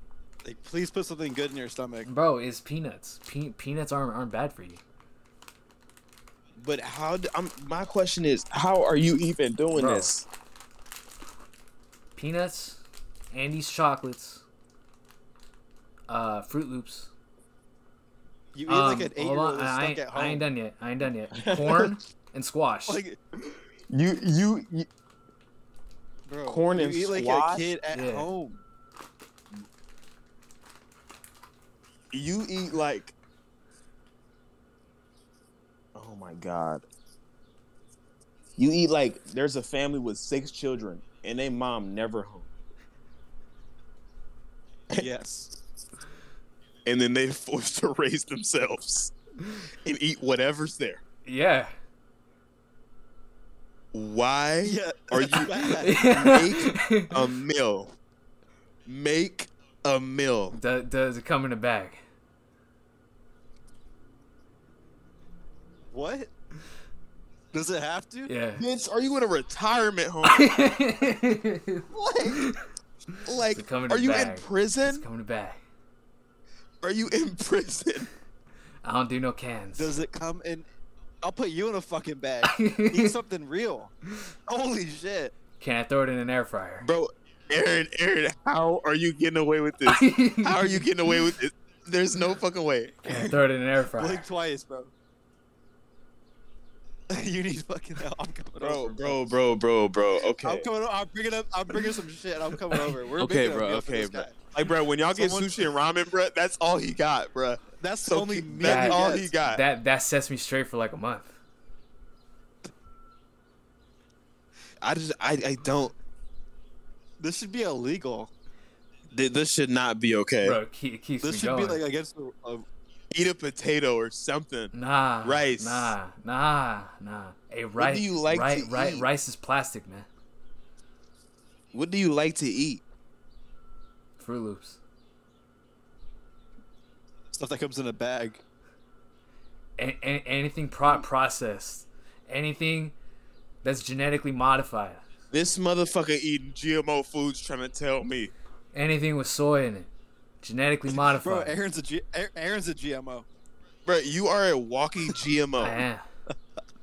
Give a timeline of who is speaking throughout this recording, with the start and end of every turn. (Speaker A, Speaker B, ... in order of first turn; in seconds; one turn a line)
Speaker A: 0.4-2.1
Speaker B: 2.0-4.8
Speaker C: 6.5-10.2
Speaker B: 9.7-10.1
Speaker B: 12.2-14.4
Speaker B: 16.1-17.1
Speaker A: 18.5-20.4
Speaker B: 18.7-23.0
Speaker C: 21.3-22.0
Speaker A: 22.9-23.2
Speaker C: 23.9-24.9
Speaker A: 26.3-28.6
Speaker C: 26.5-27.7
Speaker B: 27.9-28.3
Speaker C: 32.1-33.1
Speaker C: 35.9-36.8
Speaker C: 38.6-42.5
Speaker A: 44.9-45.5
Speaker C: 46.8-49.1
Speaker C: 49.8-51.0
Speaker B: 51.2-51.7
Speaker C: 53.9-57.9
Speaker A: 54.6-56.6
Speaker B: 55.8-57.2
Speaker C: 58.9-60.6
Speaker B: 60.5-62.0
Speaker A: 65.9-66.3
Speaker A: 67.5-68.3
Speaker B: 68.2-68.6
Speaker C: 68.6-70.5
Speaker B: 70.2-72.6
Speaker A: 71.9-72.4
Speaker B: 73.2-75.6
Speaker C: 73.2-75.0
Speaker C: 76.8-78.1
Speaker B: 78.8-79.9
Speaker A: 79.7-80.7
Speaker A: 81.2-83.9
Speaker B: 82.4-83.2
Speaker A: 84.5-85.3
Speaker B: 85.6-86.9
Speaker C: 86.8-93.3
Speaker B: 89.8-90.9
Speaker B: 93.0-94.2
Speaker A: 93.9-94.9
Speaker A: 97.1-99.3
Speaker C: 98.6-100.7
Speaker A: 100.4-104.5
Speaker C: 103.1-109.6
Speaker A: 105.1-105.5
Speaker A: 107.8-109.3
Speaker B: 108.6-111.3
Speaker C: 114.8-115.9
Speaker A: 117.2-118.3
Speaker C: 119.1-120.6
Speaker B: 120.4-121.8
Speaker A: 121.2-122.7
Speaker C: 123.1-124.7
Speaker B: 124.7-130.1
Speaker C: 125.2-125.9
Speaker C: 127.8-129.1
Speaker C: 131.7-132.8
Speaker B: 134.2-134.8
Speaker A: 137.3-138.4
Speaker B: 139.8-142.9
Speaker B: 143.6-145.0
Speaker C: 145.3-148.3
Speaker B: 148.7-149.9
Speaker B: 150.4-151.6
Speaker A: 150.9-153.2
Speaker C: 153.8-155.8
Speaker B: 155.6-156.0